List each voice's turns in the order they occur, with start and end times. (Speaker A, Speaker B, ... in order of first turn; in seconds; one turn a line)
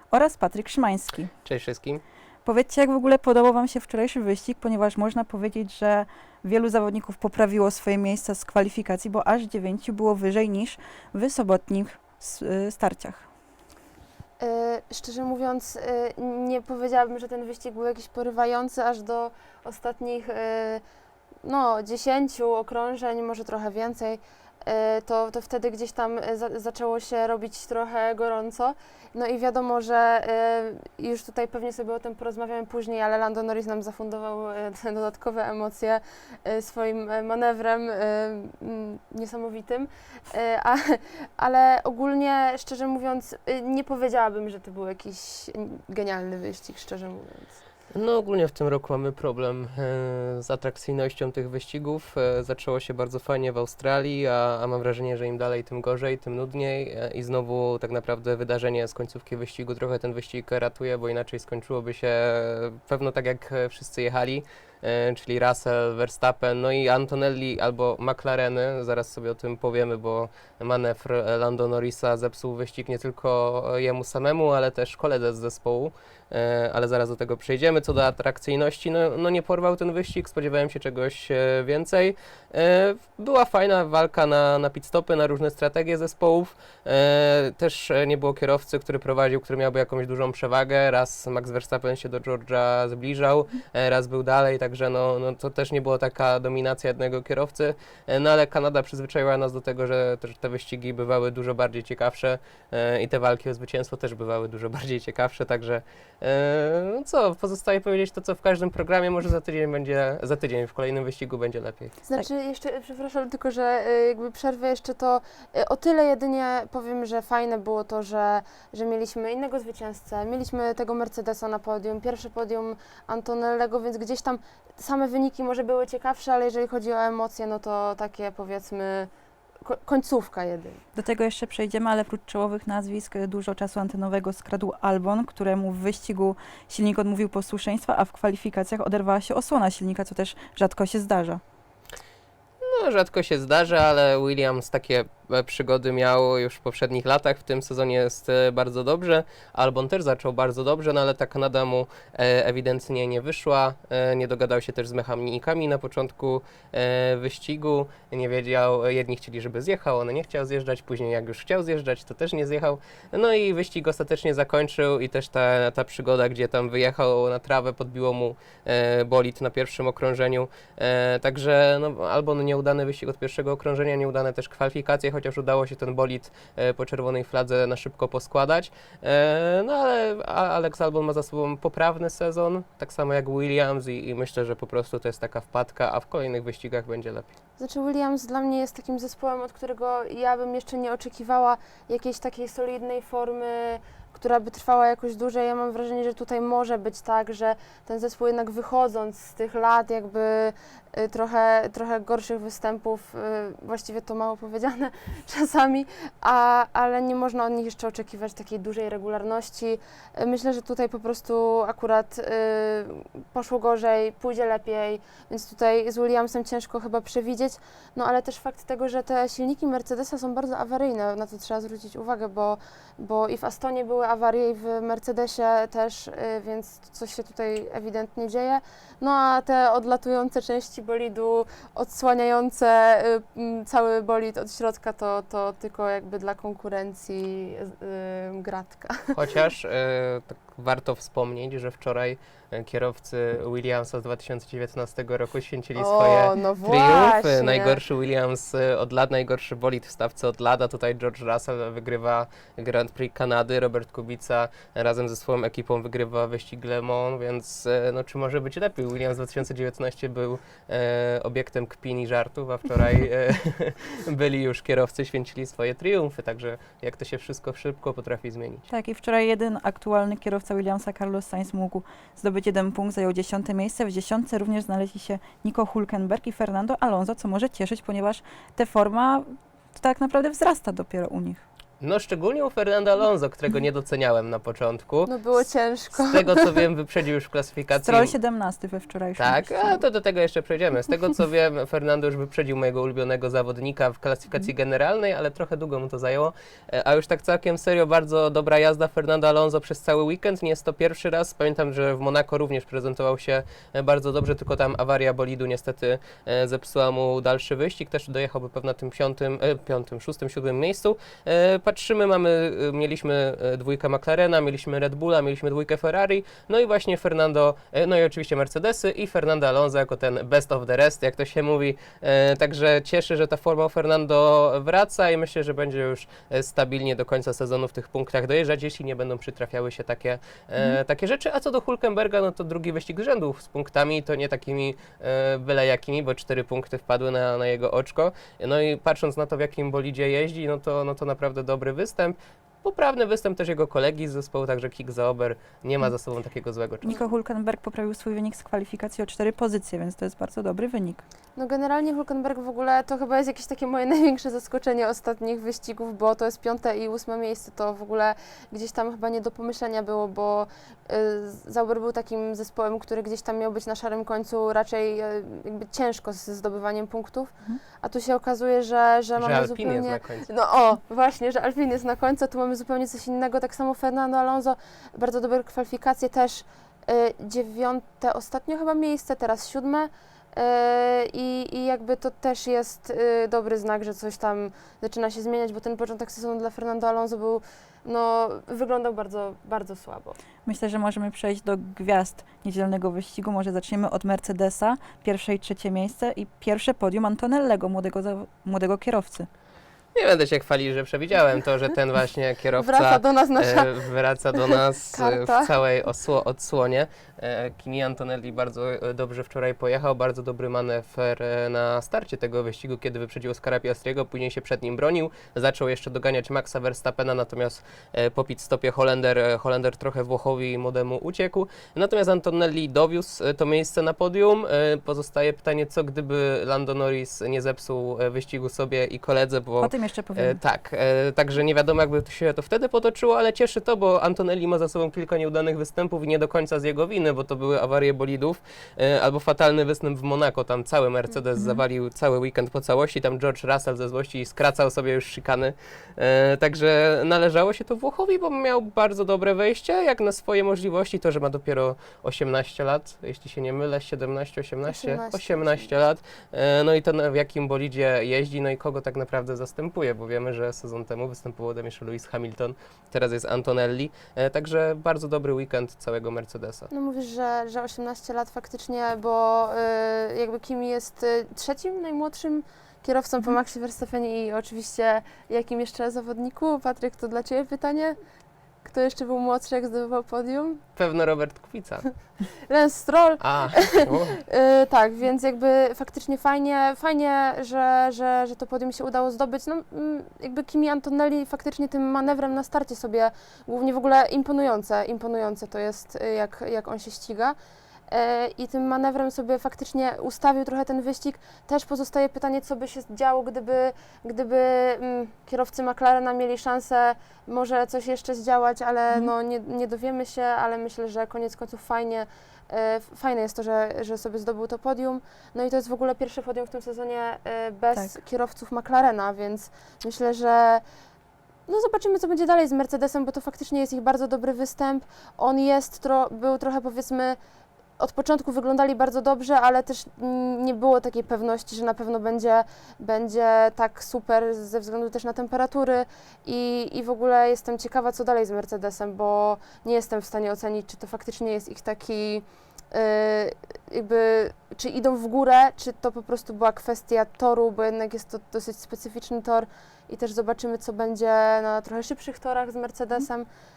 Speaker A: 0.1-1.3
Speaker B: 1.4-2.0
Speaker A: 2.5-13.2
Speaker C: 14.4-20.8
Speaker C: 21.4-47.6
Speaker B: 47.9-111.9
Speaker C: 112.0-129.1
Speaker C: 129.6-130.8
Speaker A: 130.9-141.4
Speaker B: 142.6-187.3
Speaker C: 187.6-239.2
Speaker B: 239.1-268.7
Speaker C: 245.8-247.8
Speaker A: 268.7-281.4
Speaker B: 281.8-285.1
Speaker C: 285.1-286.6
Speaker B: 285.9-288.1
Speaker A: 287.8-289.8
Speaker B: 289.2-346.9
Speaker A: 346.8-351.0
Speaker C: 351.4-390.2
Speaker B: 369.2-370.3
Speaker A: 390.4-399.3
Speaker B: 399.9-466.7
Speaker C: 402.6-403.8
Speaker C: 404.3-405.5
Speaker A: 429.6-430.4
Speaker A: 441.4-441.6
Speaker C: 454.7-455.7
Speaker C: 466.7-477.9
Speaker C: 478.6-480.6
Speaker B: 480.8-481.9
Speaker C: 482.5-497.3
Speaker B: 483.2-484.2
Speaker C: 497.9-520.6
Speaker C: 521.5-527.2
Speaker C: 527.8-553.3